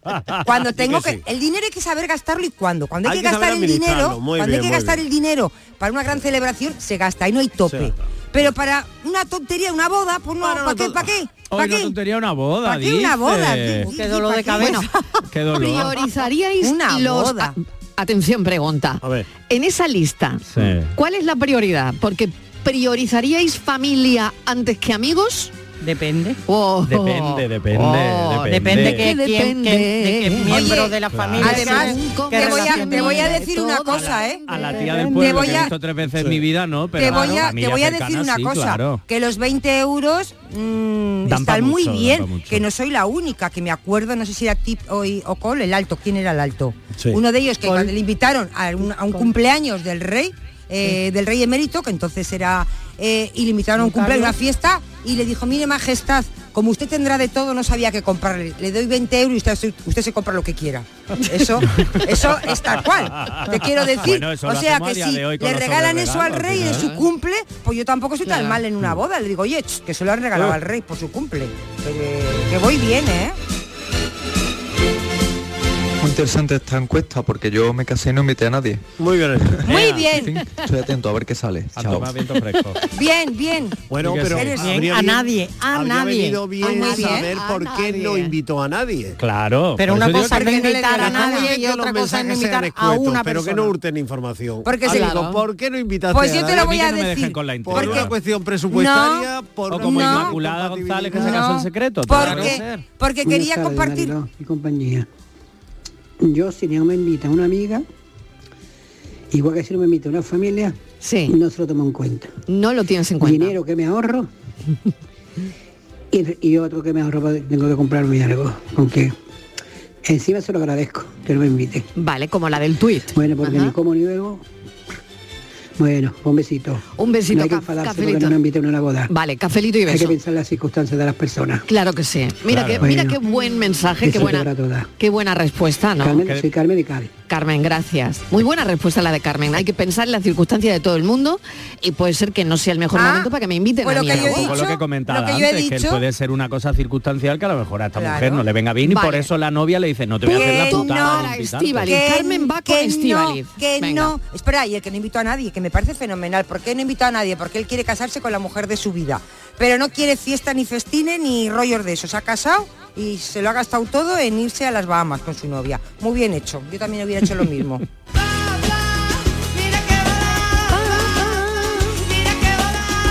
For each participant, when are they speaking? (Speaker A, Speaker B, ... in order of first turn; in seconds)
Speaker A: 0.1-0.4, 11.5-13.9, 15.3-16.0, 20.5-20.9, 26.9-29.1, 31.1-31.4, 34.5-39.0, 41.3-42.6, 63.2-63.4, 64.0-66.9, 79.7-80.1, 81.7-82.8, 84.0-84.8, 89.2-90.5, 96.4-98.1, 99.7-102.8, 132.5-132.9, 136.2-136.5, 144.1-152.0
Speaker B: 0.4-11.9, 12.6-14.8, 16.6-17.6, 30.5-35.7, 37.0-73.4, 79.7-80.4, 82.9-83.8, 84.3-84.6, 86.6-87.3, 90.2-91.5, 94.6-95.1, 96.1-98.1, 98.7-100.3, 101.2-104.1, 142.9-143.3, 143.8-146.0, 147.9-148.4, 150.2-167.8
Speaker C: 0.7-1.2, 3.0-5.0, 7.7-7.9, 19.0-19.3, 79.0-79.6, 83.9-89.2, 91.0-96.8, 97.7-101.4, 102.2-102.5
Speaker D: 13.8-14.9, 25.8-26.4, 28.5-35.6, 53.8-54.4, 84.6-87.2, 89.8-93.7
Speaker E: 14.6-14.9, 15.5-25.5, 26.5-30.8, 31.4-34.1, 66.7-67.0, 68.3-68.6, 86.6-88.3, 94.9-95.4, 111.0-111.4, 112.5-113.6, 122.0-123.7, 127.0-128.4, 129.1-130.2, 131.7-136.2, 137.3-144.6, 148.8-149.3, 150.3-154.1, 170.9-171.7
Speaker F: 76.0-78.8, 80.7-82.0
Speaker G: 103.2-105.1, 106.2-107.8, 109.3-110.8, 111.3-112.3, 113.2-114.3, 116.1-119.1, 120.0-121.9, 123.1-124.4, 125.8-129.1, 129.9-131.6, 132.8-133.2, 134.0-134.9, 136.0-137.1